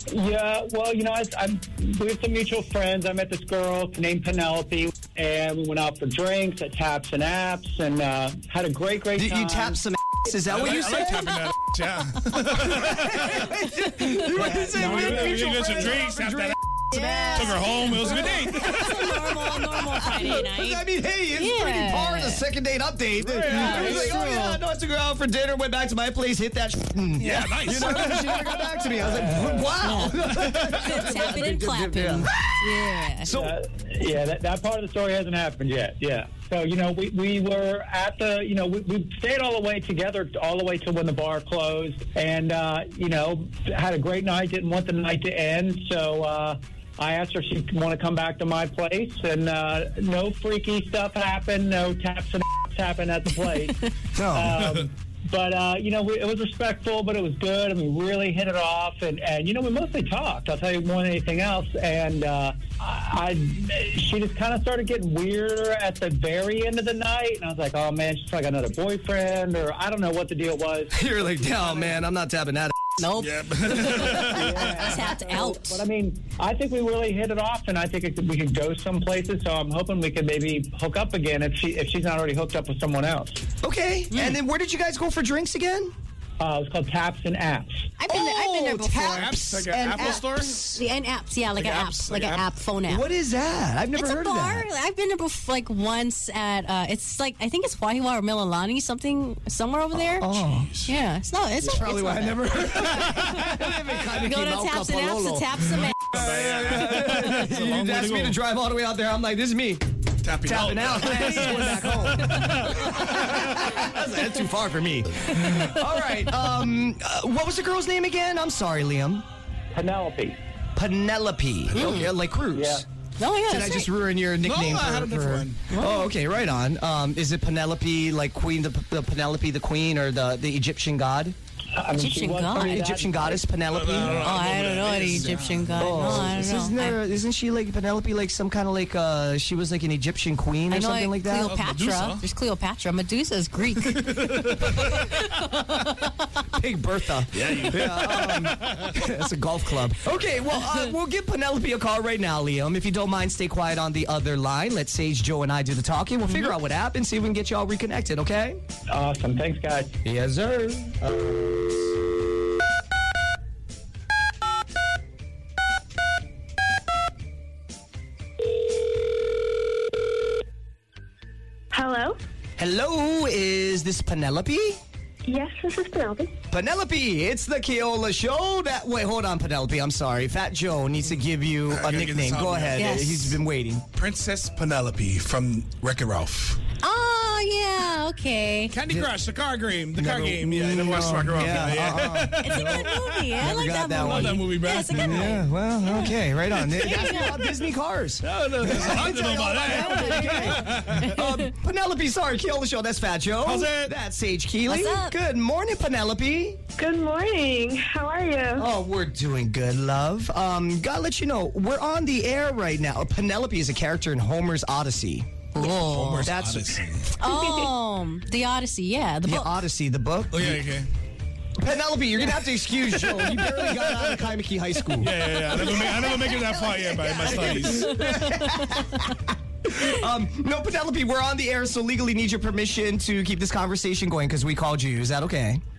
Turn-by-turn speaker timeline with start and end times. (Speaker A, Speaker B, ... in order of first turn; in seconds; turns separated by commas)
Speaker A: 0.1-9.8, Speaker B: 9.2-11.5, Speaker C: 10.5-13.6, Speaker B: 12.6-32.7, Speaker C: 14.3-16.6, Speaker A: 14.7-15.8, Speaker D: 16.9-22.4, Speaker C: 17.3-19.0, Speaker C: 23.2-24.2, Speaker D: 23.5-24.6, Speaker C: 27.2-29.1, Speaker A: 29.0-29.7, Speaker D: 29.8-33.3, Speaker C: 30.3-31.4, Speaker B: 33.2-33.5, Speaker A: 33.2-70.9, Speaker B: 54.2-54.6, Speaker B: 70.9-73.0, Speaker D: 73.0-75.8, Speaker C: 73.2-75.0, Speaker A: 73.9-83.4, Speaker B: 83.6-85.9, Speaker D: 84.1-84.4, Speaker A: 86.4-87.9, Speaker D: 88.0-89.3, Speaker B: 88.1-90.8, Speaker C: 89.0-90.7, Speaker D: 90.7-93.0, Speaker C: 91.5-92.5, Speaker B: 92.9-94.7, Speaker D: 93.9-100.3, Speaker B: 99.9-100.7, Speaker C: 100.2-100.9, Speaker D: 100.9-103.2, Speaker B: 101.6-109.8, Speaker C: 102.7-103.2, Speaker D: 104.2-106.2, Speaker C: 105.7-108.4, Speaker C: 110.2-113.8, Speaker B: 110.4-119.2, Speaker D: 111.2-111.9, Speaker C: 115.5-115.8, Speaker A: 119.7-120.4, Speaker B: 120.8-122.8, Speaker C: 121.7-122.1, Speaker D: 121.7-122.1, Speaker A: 122.5-122.8, Speaker D: 123.2-123.9, Speaker B: 123.5-131.3, Speaker C: 124.4-125.6, Speaker D: 125.7-126.1, Speaker A: 131.7-133.5, Speaker D: 132.0-132.8, Speaker B: 132.5-134.3, Speaker C: 133.7-136.0, Speaker D: 134.0-137.0, Speaker B: 135.8-141.6, Speaker D: 140.7-146.2, Speaker C: 141.4-142.3, Speaker C: 143.8-145.1, Speaker B: 146.5-158.6, Speaker C: 147.3-149.0, Speaker D: 156.2-156.5, Speaker A: 158.9-159.9, Speaker B: 160.0-161.9, Speaker E: 171.7-172.2, Speaker B: 172.6-174.8, Speaker E: 175.2-176.3, Speaker B: 176.5-183.9, Speaker C: 181.7-183.4, Speaker D: 182.8-183.3, Speaker C: 183.9-186.6, Speaker D: 186.8-188.7, Speaker C: 188.7-195.4, Speaker B: 188.9-189.1, Speaker B: 190.0-206.6, Speaker D: 192.4-197.5, Speaker C: 196.5-197.3, Speaker C: 198.2-201.1, Speaker D: 199.6-201.4, Speaker C: 203.4-203.9, Speaker D: 204.7-205.2, Speaker E: 206.8-208.7, Speaker B: 208.6-216.8, Speaker D: 215.6-216.3, Speaker C: 215.7-217.1, Speaker D: 217.2-219.5, Speaker E: 217.2-217.7, Speaker B: 219.2-220.7, Speaker C: 220.3-220.9, Speaker B: 221.6-235.6, Speaker C: 222.9-224.3, Speaker C: 225.0-227.9, Speaker D: 227.8-228.8